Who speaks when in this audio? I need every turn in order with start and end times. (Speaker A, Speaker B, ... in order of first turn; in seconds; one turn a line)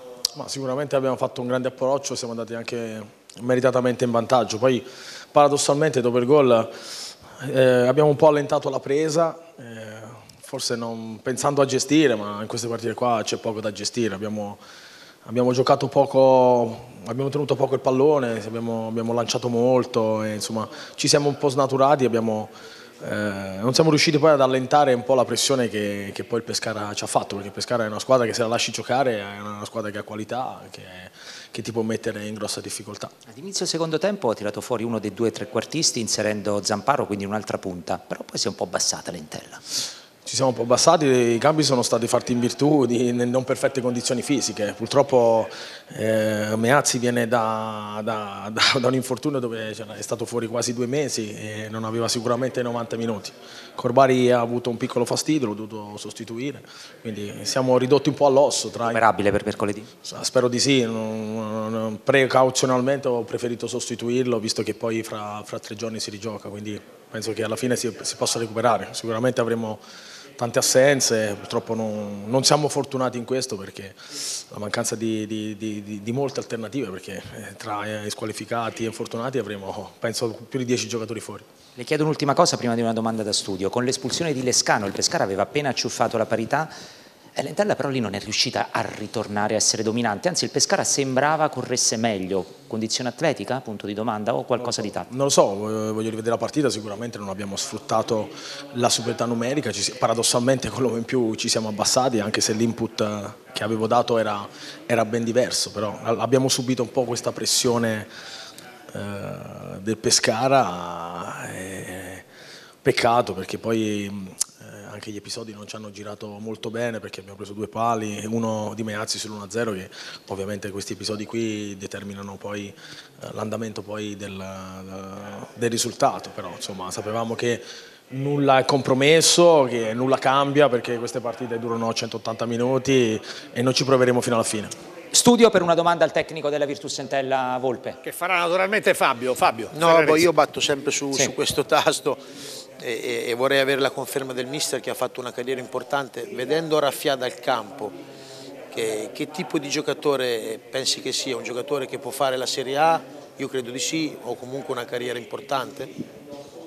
Speaker A: 0.3-6.9
Speaker A: 7.4-14.6
Speaker A: 15.2-33.1
Speaker B: 33.3-39.6
Speaker A: 40.2-59.0
Speaker B: 58.9-59.9
Speaker A: 60.0-69.8
Speaker A: 70.4-81.5
Speaker B: 81.8-86.7
Speaker B: 87.3-95.1
Speaker A: 94.6-108.1
Speaker A: 108.9-112.2
Speaker A: 112.8-134.7
Speaker B: 135.1-138.0
Speaker C: 138.0-140.3
Speaker D: 139.7-142.2
Speaker D: 142.8-147.9
Speaker D: 148.7-155.9